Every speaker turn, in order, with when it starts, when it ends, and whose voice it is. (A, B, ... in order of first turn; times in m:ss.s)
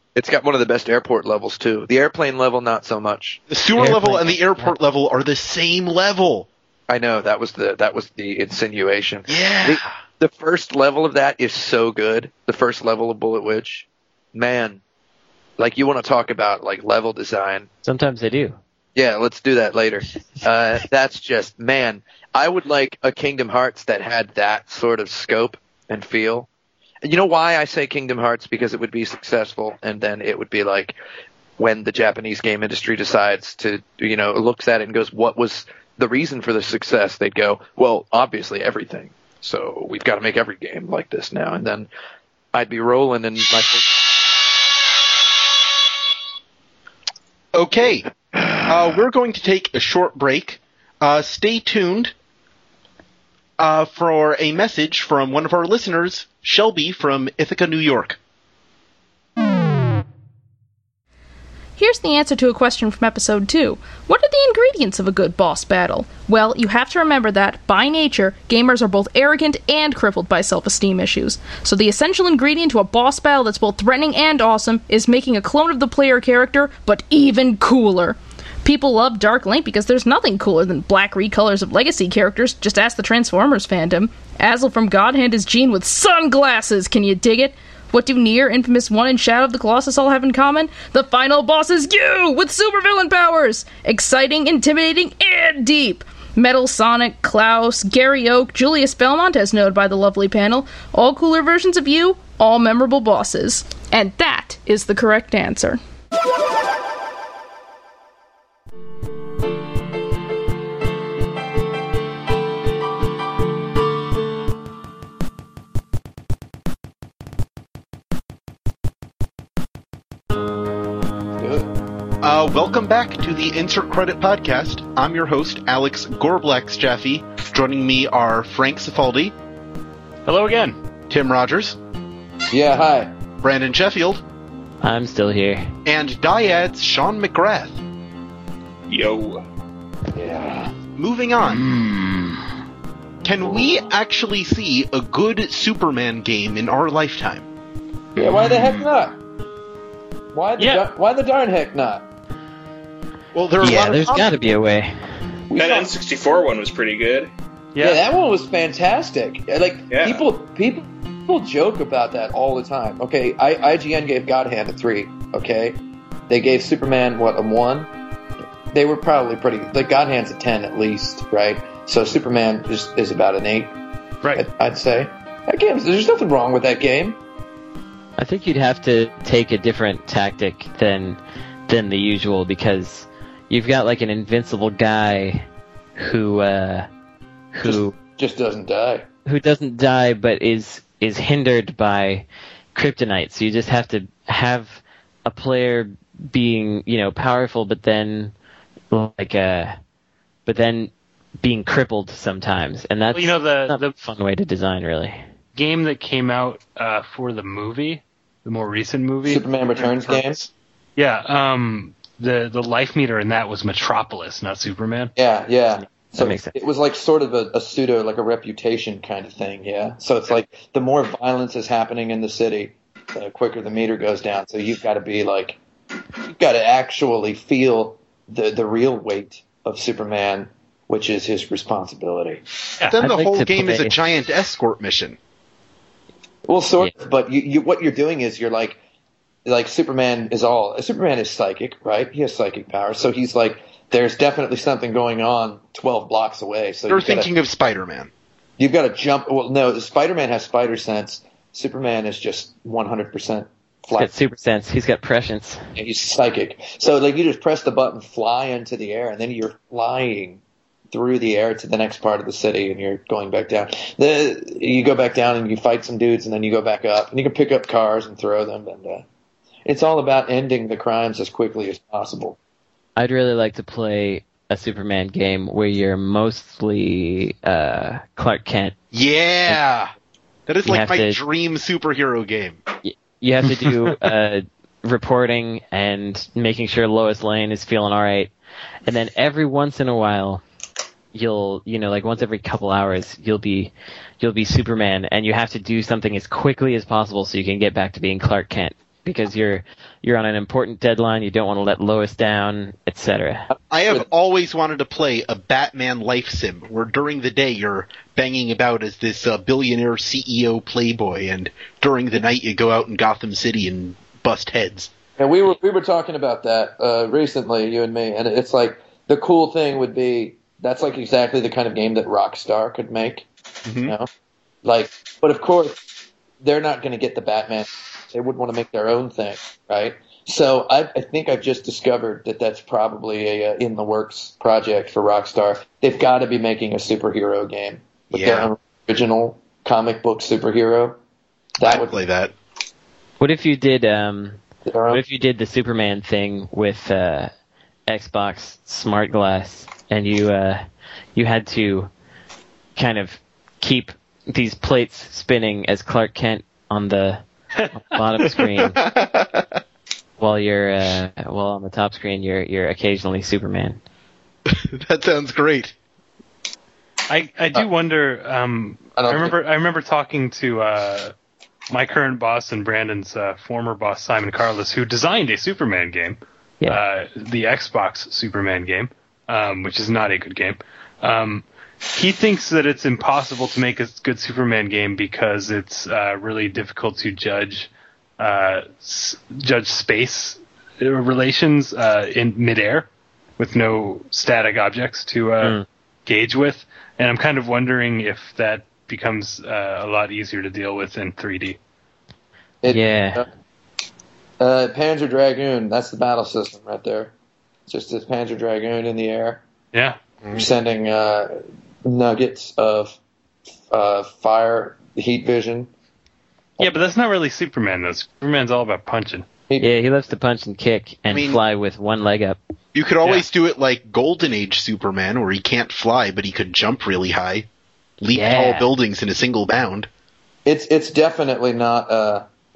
0:00.2-0:03.4 A
0:03.5-0:06.5 B
0:03.8-0:04.7 C
0:06.9-0:14.8 A
0:09.3-0:09.9 B
0:15.6-0:17.7 A
0:17.8-0:18.6 C
0:19.0-0:26.5 A
0:27.0-0:31.0 A
0:31.6-0:41.9 A
0:42.5-0:44.0 A
0:47.5-0:48.1 B
0:48.3-0:49.0 A
0:48.6-0:52.1 B
0:53.6-0:58.2 B
1:01.8-1:45.8 D
2:01.4-2:01.7 A
2:02.2-2:09.4 B
2:10.3-2:10.8 E
2:11.1-2:11.8 B
2:12.5-2:13.1 A
2:13.4-2:14.2 B
2:14.8-2:15.7 C
2:15.8-2:17.8 B
2:18.9-2:19.4 F
2:20.1-2:20.7 A
2:21.0-2:21.8 B
2:23.2-2:27.5 B
2:28.2-2:29.2 A
2:30.3-2:32.1 A
2:30.6-2:30.8 E
2:33.3-2:34.3 B
2:33.6-2:35.0 C
2:35.5-2:35.9 A
2:35.6-2:37.3 F
2:37.8-2:38.0 E
2:37.8-2:47.9 A
2:39.9-2:40.2 F
2:48.7-2:53.7 A
2:54.4-2:57.2 A
2:58.2-3:05.5 C
3:06.0-3:06.9 C
3:07.5-3:08.0 C
3:07.6-3:09.0 A
3:09.3-3:18.3 C
3:18.9-3:19.8 C
3:20.5-3:25.2 C
3:23.1-3:23.9 E
3:25.6-3:29.4 E
3:29.2-3:30.4 A
3:29.8-3:30.4 B
3:31.0-3:35.1 E
3:35.2-3:45.6 A
3:36.2-3:36.6 C
3:46.3-3:52.4 A
3:52.9-3:55.2 B
3:53.0-3:54.0 C
3:56.5-3:58.8 A
3:59.5-4:07.3 A
4:06.9-4:08.1 B
4:08.6-4:14.1 A
4:14.0-4:15.6 C
4:15.8-4:29.0 A
4:29.7-4:32.4 A
4:33.0-4:38.8 C
4:38.9-4:39.9 B
4:40.5-4:42.6 B
4:40.6-4:41.2 C
4:42.8-4:48.3 C
4:48.9-4:50.4 C
4:51.1-5:03.5 C
5:03.5-5:04.0 A
5:03.7-5:14.9 B
5:15.2-5:23.3 A
5:23.6-5:24.0 B
5:24.6-5:25.8 A
5:26.4-5:41.0 A
5:38.1-5:38.5 B
5:41.6-5:42.0 A
5:41.6-5:42.3 B
5:43.2-5:44.4 C
5:44.7-5:45.0 A
5:44.9-5:47.3 C
5:47.9-5:50.6 C
5:51.2-5:51.9 C
5:52.8-5:57.2 C
5:57.7-5:58.8 C
5:58.6-5:59.6 B
6:00.2-6:03.8 C
6:04.5-6:05.7 B
6:07.1-6:11.1 E
6:09.0-6:09.4 A
6:11.7-6:32.9 E
6:33.4-6:41.6 E
6:35.4-6:35.7 C
6:42.6-6:43.3 A
6:42.7-6:43.2 C
6:44.4-6:47.1 A
6:47.7-6:49.4 A
6:49.7-6:50.0 E
6:50.2-6:50.5 B
6:50.3-6:53.0 A
6:53.7-6:55.7 A
6:56.6-6:59.3 E
6:59.6-7:02.4 C
7:01.1-7:01.4 B
7:02.7-7:07.5 B
7:08.0-7:09.9 B
7:08.1-7:08.7 C
7:10.5-7:12.2 A